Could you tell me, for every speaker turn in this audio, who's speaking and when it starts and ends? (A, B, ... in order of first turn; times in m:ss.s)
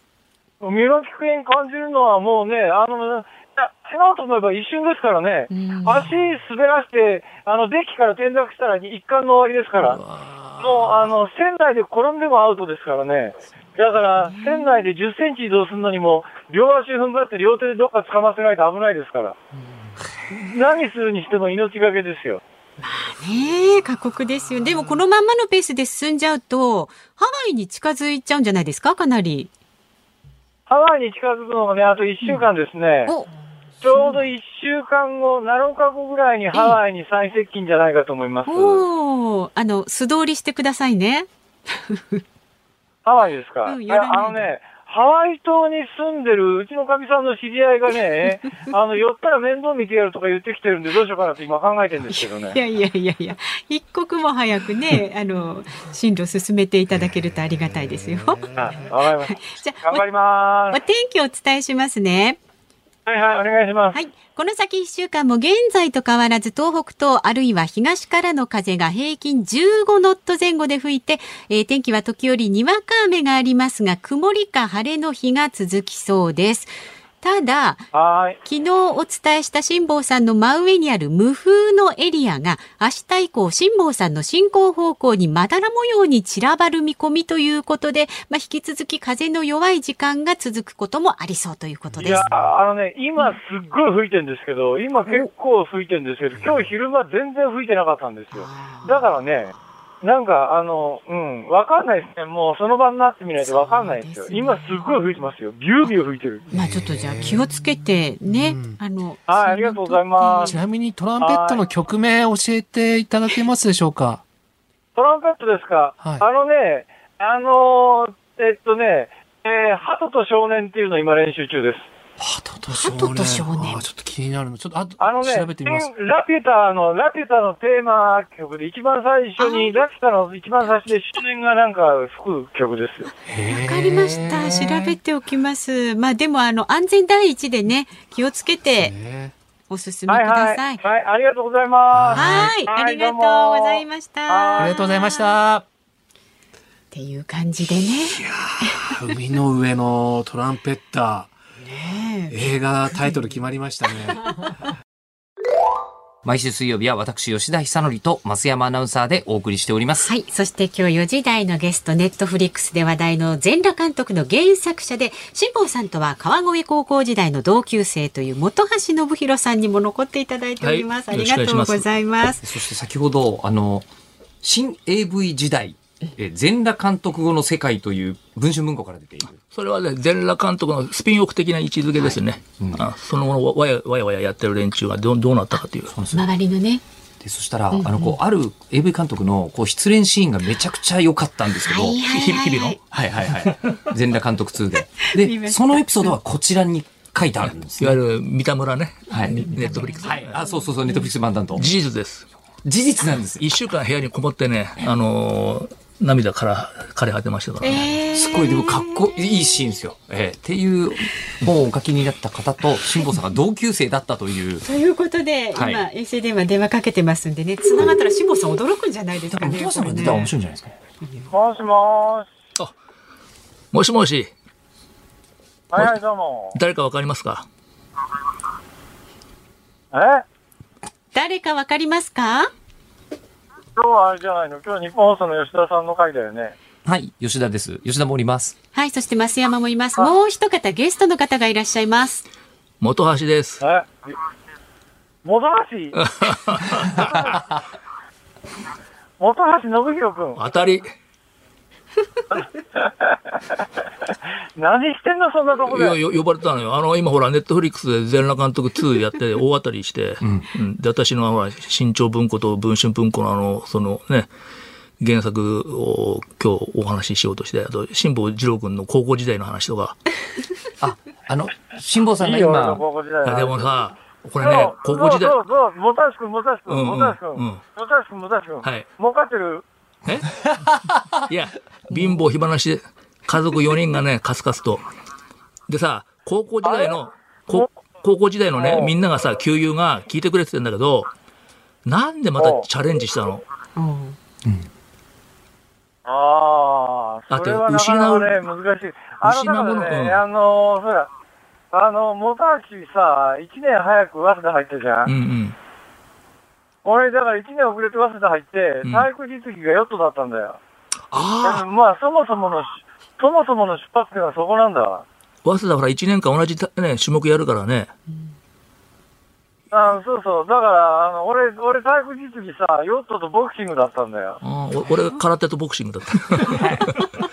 0:00.6-0:10.0 A
0:05.5-0:06.1 B
0:09.8-0:11.1 C
0:10.6-0:19.4 A
0:14.2-0:14.9 B
0:20.0-0:20.2 C
0:20.3-0:22.4 A
0:22.8-0:29.5 B
0:30.7-0:33.1 A
0:33.8-0:38.8 A
0:33.9-0:34.2 B
0:36.5-0:36.8 B
0:38.5-0:42.2 B
0:43.0-0:52.6 A
0:43.7-0:44.5 B
0:52.1-0:58.5 B
0:57.6-0:58.8 C
0:58.6-1:00.8 A
0:59.3-1:00.0 B
1:00.7-1:02.4 B
1:03.1-1:04.0 A
1:03.9-1:17.9 B
1:17.9-1:18.4 A
1:18.4-1:32.3 B
1:32.0-1:46.5 A
1:38.3-1:39.2 B
1:43.4-1:45.0 B
1:46.5-1:47.6 C
1:46.5-1:50.6 B
1:48.2-1:48.8 C
1:49.3-1:50.6 A
1:50.4-1:54.2 C
1:51.2-1:51.6 A
1:55.0-2:01.9 A
1:56.0-1:56.2 C
2:02.2-2:05.9 C
2:02.7-2:03.8 B
2:05.0-2:13.1 A
2:09.4-2:09.9 B
2:13.1-2:19.0 B
2:13.3-2:15.0 C
2:18.8-2:19.3 C
2:19.7-2:20.8 B
2:20.1-2:24.8 A
2:21.9-2:22.6 C
2:22.1-2:25.4 B
2:24.6-2:25.6 C
2:26.9-2:29.0 B
2:28.2-2:31.3 C
2:31.6-2:33.4 B
2:32.3-2:34.4 C
2:36.2-2:40.1 D
2:40.0-2:52.4 B
2:50.6-2:51.9 E
2:52.4-2:53.9 D
2:54.4-2:59.4 D
2:59.4-3:06.0 E
3:02.6-3:02.9 D
3:05.9-3:06.3 D
3:06.1-3:06.8 B
3:07.2-3:18.0 D
3:07.7-3:08.2 B
3:11.6-3:12.8 B
3:15.1-3:16.2 B
3:17.5-3:20.4 E
3:19.1-3:21.7 D
3:19.3-3:21.1 B
3:21.6-3:22.3 E
3:22.6-3:23.5 D
3:23.4-3:27.9 E
3:27.6-3:29.6 B
3:28.1-3:34.7 D
3:34.6-3:40.3 B
3:35.5-3:35.8 D
3:39.3-3:40.8 D
3:41.0-3:41.3 B
3:41.3-3:42.3 A
3:43.7-3:44.3 E
3:45.7-3:46.6 A
3:46.5-3:47.5 E
3:49.9-3:50.2 A
3:51.1-3:52.5 B
3:53.8-3:56.6 A
3:56.8-3:58.6 D
3:58.8-4:02.2 B
4:02.8-4:03.6 E
4:03.6-4:04.2 A
4:05.2-4:06.0 A
4:06.0-4:07.2 E
4:06.9-4:07.4 A
4:09.2-4:10.4 A
4:10.4-4:10.9 E
4:12.3-4:13.6 A
4:14.6-4:16.0 A
4:15.7-4:24.3 E
4:20.2-4:20.5 D
4:25.0-4:30.0 E
4:30.8-4:32.8 D
4:32.2-4:33.7 A
4:33.2-4:35.4 E
4:34.4-4:39.6 A
4:36.7-4:37.6 E
4:40.0-4:40.4 E
4:41.2-4:44.8 E
4:45.7-4:51.1 E
4:46.6-4:47.0 A
4:48.6-4:48.9 A
4:51.8-4:53.4 E
4:52.4-4:52.6 A
4:53.8-4:54.2 B
4:56.0-5:01.1 A
4:57.3-4:58.5 E
4:59.2-5:00.2 E
5:01.7-5:05.1 A
5:05.1-5:05.6 E
5:06.8-5:10.6 A
5:08.8-5:09.1 E
5:11.1-5:11.6 E
5:11.4-5:15.0 A
5:15.4-5:17.9 E
5:18.1-5:18.3 B
5:19.7-5:24.4 A
5:24.4-5:27.1 E